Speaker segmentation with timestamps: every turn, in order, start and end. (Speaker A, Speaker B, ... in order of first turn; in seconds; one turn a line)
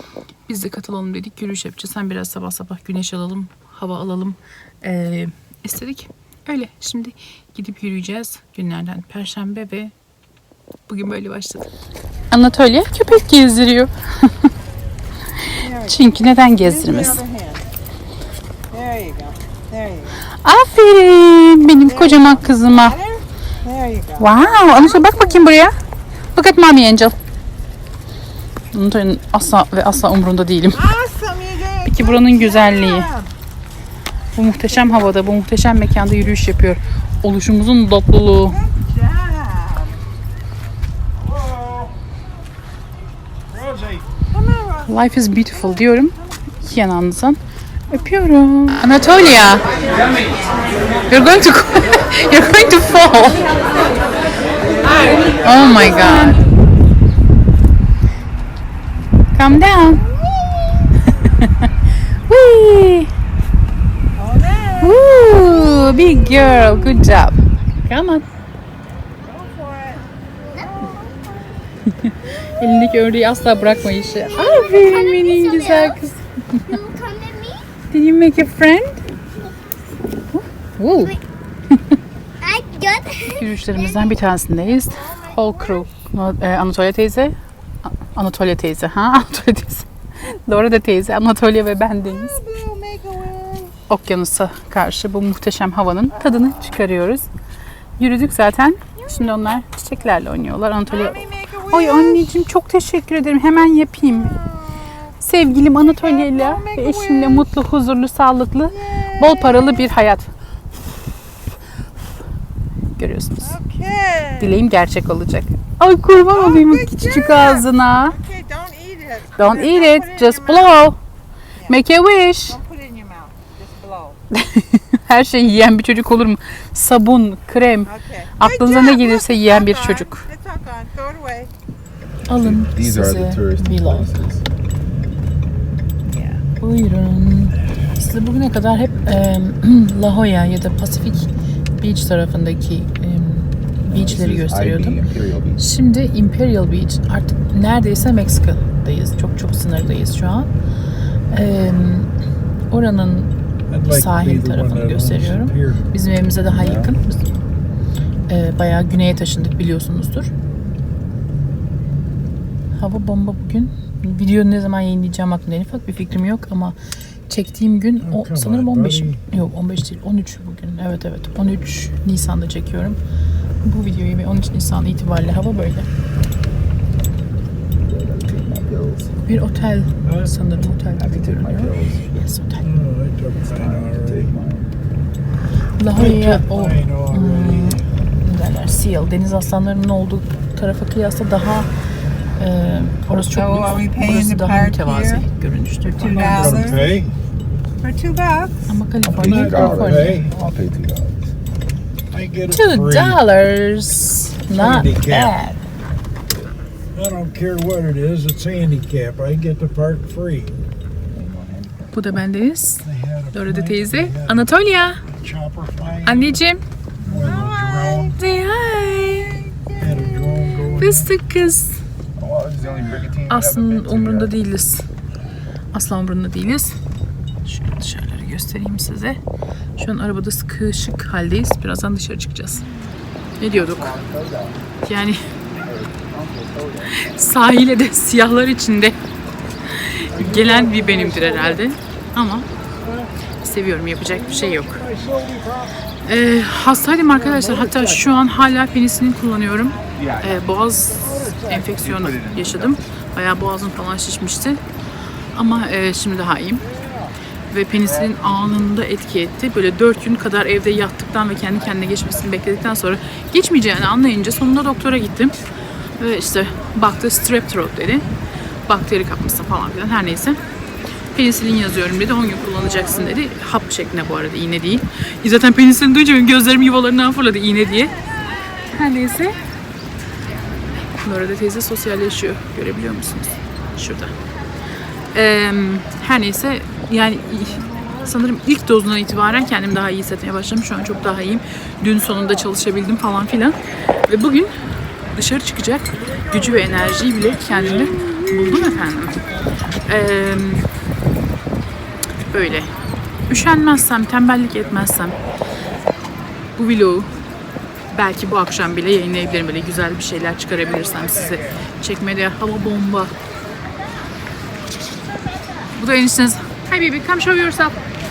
Speaker A: 0.5-9.9
Speaker A: 10.9-11.7
Speaker A: 12.3-14.3
Speaker B: 15.6-17.7
Speaker A: 15.8-17.2
Speaker B: 18.7-20.2
Speaker A: 20.4-23.0
Speaker B: 21.8-25.5
Speaker A: 24.2-25.7
Speaker A: 26.3-27.1
Speaker A: 28.7-30.8
Speaker B: 30.7-33.3
Speaker A: 31.8-33.1
Speaker A: 34.4-38.6
Speaker B: 34.7-35.1
Speaker B: 38.5-40.0
Speaker C: 41.2-41.9
Speaker C: 43.5-44.0
Speaker B: 44.3-46.3
Speaker A: 44.9-47.4
Speaker A: 47.9-49.7
Speaker A: 51.1-53.6
Speaker A: 55.2-56.4
Speaker A: 59.3-60.0
Speaker A: 62.3-63.1
Speaker B: 64.2-65.3
Speaker A: 64.8-68.2
Speaker B: 69.2-71.6
Speaker A: 72.0-76.7
Speaker D: 74.2-76.0
Speaker D: 76.6-77.6
Speaker A: 77.9-79.0
Speaker A: 80.3-81.1
Speaker D: 82.4-84.2
Speaker A: 83.3-87.3
Speaker B: 84.8-85.8
Speaker A: 88.0-92.3
Speaker B: 92.0-93.7
Speaker A: 93.9-97.3
Speaker B: 96.1-96.7
Speaker A: 98.0-104.3
Speaker B: 99.0-99.6
Speaker B: 100.9-102.3
Speaker B: 104.0-104.9
Speaker A: 105.2-110.3
Speaker B: 105.7-107.5
Speaker B: 108.7-109.9
Speaker A: 113.0-113.5
Speaker B: 113.4-114.6
Speaker A: 114.4-118.2
Speaker B: 116.1-120.9
Speaker A: 119.4-121.0
Speaker A: 121.7-122.6
Speaker B: 122.5-124.2
Speaker A: 124.3-130.2
Speaker B: 127.8-131.5
Speaker A: 132.3-134.1
Speaker E: 132.3-134.4
Speaker B: 136.1-136.4
Speaker A: 136.6-145.1
Speaker E: 143.9-145.6
Speaker A: 145.6-150.5
Speaker A: 151.3-152.1
Speaker A: 152.7-153.3
Speaker C: 153.7-155.8
Speaker A: 153.8-157.2
Speaker A: 158.3-160.3
Speaker A: 162.7-166.8
Speaker A: 167.3-173.0
Speaker C: 168.1-169.2
Speaker A: 173.6-175.9
Speaker E: 177.8-179.2
Speaker A: 179.2-182.7
Speaker E: 180.9-182.2
Speaker C: 182.6-184.2
Speaker E: 183.3-184.7
Speaker A: 185.8-191.7
Speaker C: 185.9-187.8
Speaker A: 192.4-196.9
Speaker B: 193.3-195.2
Speaker B: 196.0-196.9
Speaker C: 196.0-197.1
Speaker B: 197.8-198.5
Speaker A: 198.7-200.3
Speaker E: 199.1-201.3
Speaker C: 199.2-200.3
Speaker C: 202.1-203.2
Speaker A: 202.5-205.6
Speaker C: 204.5-205.3
Speaker C: 206.9-210.5
Speaker A: 211.1-215.0
Speaker C: 212.8-214.4
Speaker C: 215.1-216.3
Speaker A: 216.0-216.6
Speaker E: 217.0-217.3
Speaker C: 217.0-218.1
Speaker B: 217.2-218.2
Speaker A: 218.2-219.4
Speaker B: 219.3-220.7
Speaker C: 219.8-221.0
Speaker A: 220.8-221.7
Speaker E: 222.2-224.3
Speaker A: 223.3-224.8
Speaker A: 225.7-226.7
Speaker A: 227.4-229.2
Speaker A: 229.8-232.6
Speaker A: 233.4-233.9
Speaker E: 233.4-234.6
Speaker A: 234.8-235.2
Speaker E: 235.6-237.0
Speaker A: 236.9-238.9
Speaker A: 239.7-242.4
Speaker C: 240.2-241.6
Speaker C: 242.8-243.1
Speaker A: 243.4-244.9
Speaker C: 244.2-245.7
Speaker A: 246.0-254.6
Speaker C: 247.2-248.1
Speaker E: 249.9-250.4
Speaker C: 251.1-251.5
Speaker E: 251.5-252.8
Speaker A: 255.3-256.6
Speaker A: 257.5-265.4
Speaker A: 266.0-268.1
Speaker A: 268.7-270.4
Speaker A: 271.1-277.9
Speaker A: 278.7-279.4
Speaker A: 281.0-284.1
Speaker A: 285.1-293.6
Speaker A: 294.1-294.5
Speaker A: 295.1-299.3
Speaker A: 299.8-300.6
Speaker A: 302.3-302.7
Speaker A: 303.3-305.1
Speaker A: 306.6-307.1
Speaker A: 307.9-313.1
Speaker A: 315.7-317.8